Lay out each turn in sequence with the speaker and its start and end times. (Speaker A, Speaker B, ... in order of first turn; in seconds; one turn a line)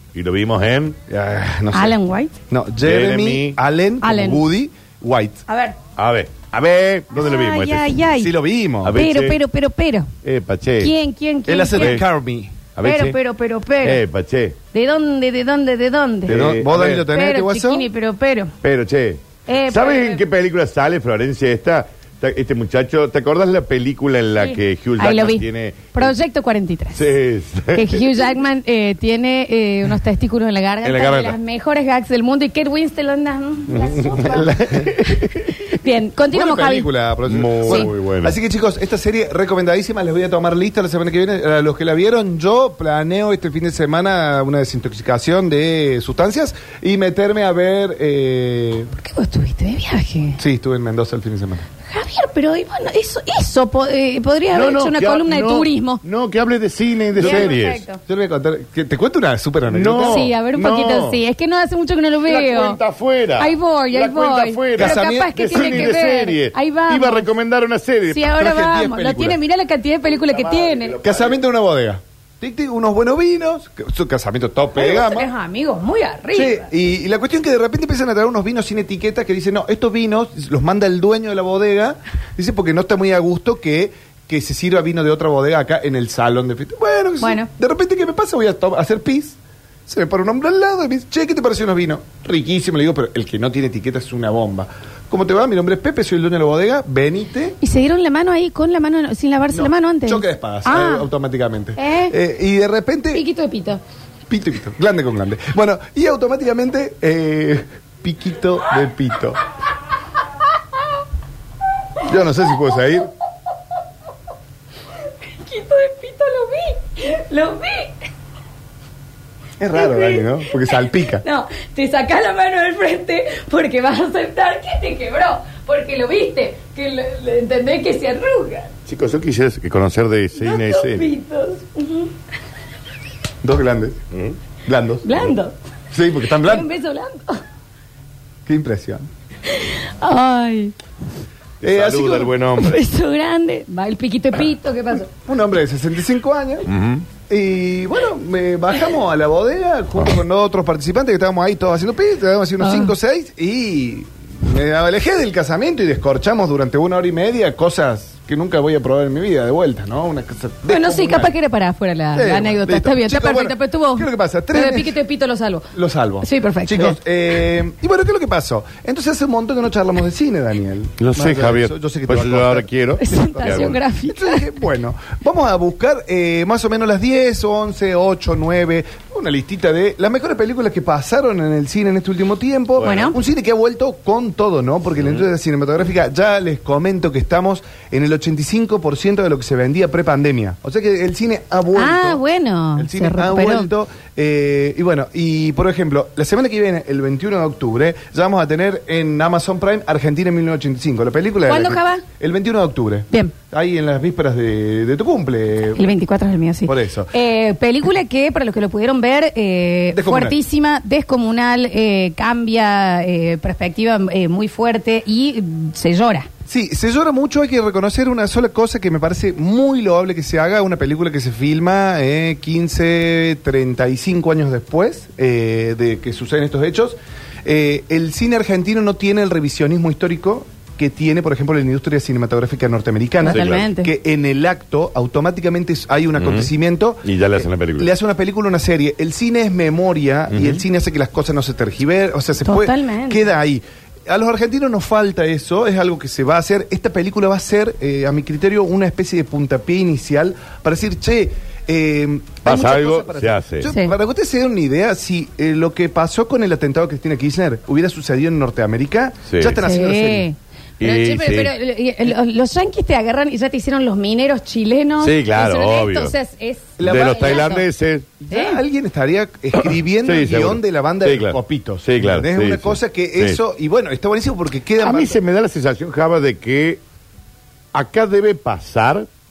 Speaker A: 0.1-1.0
Speaker B: 1.1-2.0
Speaker C: 1.7-2.3
Speaker B: 2.5-5.4
Speaker A: 2.8-3.6
Speaker C: 4.0-4.5
Speaker C: 5.5-5.8
Speaker A: 6.0-8.0
Speaker C: 7.1-8.3
Speaker B: 8.2-9.0
Speaker A: 8.8-9.4
Speaker C: 8.9-10.1
Speaker A: 10.2-10.9
Speaker C: 10.8-12.0
Speaker B: 11.5-12.6
Speaker A: 11.8-12.1
Speaker A: 12.8-13.2
Speaker C: 12.8-14.0
Speaker A: 13.8-14.6
Speaker C: 14.7-16.4
Speaker A: 16.3-17.1
Speaker B: 16.3-17.9
Speaker C: 17.1-18.5
Speaker A: 18.6-26.1
Speaker C: 19.5-20.2
Speaker C: 24.3-27.0
Speaker A: 26.9-28.1
Speaker C: 27.7-34.5
Speaker A: 30.8-31.4
Speaker A: 33.7-35.8
Speaker C: 35.7-36.9
Speaker B: 36.3-48.9
Speaker A: 37.3-38.4
Speaker C: 37.6-37.9
Speaker C: 49.0-50.4
Speaker B: 50.4-51.6
Speaker C: 51.9-56.0
Speaker A: 54.5-57.9
Speaker B: 57.2-57.5
Speaker C: 57.2-58.0
Speaker B: 58.1-60.3
Speaker A: 59.7-61.2
Speaker C: 60.0-62.8
Speaker A: 62.3-68.3
Speaker C: 63.4-67.3
Speaker B: 64.8-66.0
Speaker C: 68.1-71.0
Speaker B: 68.3-69.4
Speaker A: 70.1-71.4
Speaker B: 71.0-75.3
Speaker C: 74.8-76.7
Speaker B: 76.3-97.6
Speaker C: 87.2-87.5
Speaker C: 97.6-101.1
Speaker B: 99.5-103.2
Speaker C: 101.8-102.2
Speaker C: 103.1-103.8
Speaker B: 104.3-109.4
Speaker B: 112.0-113.1
Speaker C: 115.2-118.0
Speaker B: 119.6-121.2
Speaker C: 119.7-128.7
Speaker A: 128.9-131.1
Speaker C: 130.4-132.1
Speaker B: 133.4-134.0
Speaker A: 134.1-134.4
Speaker B: 134.7-135.3
Speaker C: 135.0-135.6
Speaker B: 135.9-136.7
Speaker C: 136.4-137.4
Speaker B: 138.5-139.1
Speaker C: 139.5-140.8
Speaker B: 141.6-142.3
Speaker A: 141.6-142.8
Speaker C: 142.5-145.1
Speaker B: 145.3-146.7
Speaker A: 146.7-147.1
Speaker B: 147.3-161.3
Speaker C: 152.6-152.9
Speaker C: 160.7-165.7
Speaker B: 162.1-165.0
Speaker B: 165.7-192.2
Speaker C: 166.2-167.0
Speaker A: 171.0-173.8
Speaker C: 173.0-174.4
Speaker A: 182.8-183.2
Speaker C: 182.8-183.2
Speaker A: 185.0-185.3
Speaker C: 191.7-193.7
Speaker B: 192.8-205.9
Speaker C: 201.5-202.1
Speaker C: 203.1-203.3
Speaker C: 205.8-216.3
Speaker B: 206.7-207.1
Speaker B: 209.9-210.4
Speaker B: 216.5-260.3
Speaker C: 233.2-233.9
Speaker A: 233.3-233.7
Speaker A: 236.2-236.5
Speaker A: 237.0-237.9
Speaker A: 240.3-240.6
Speaker C: 242.4-243.3
Speaker A: 252.4-253.7
Speaker C: 253.7-253.9
Speaker A: 259.3-259.6
Speaker C: 259.6-267.7
Speaker A: 260.8-261.5
Speaker A: 265.0-266.1
Speaker B: 266.8-267.5
Speaker A: 266.8-268.1
Speaker B: 268.2-275.2
Speaker C: 268.3-268.6
Speaker A: 269.6-273.4
Speaker A: 274.8-276.8
Speaker A: 277.7-279.1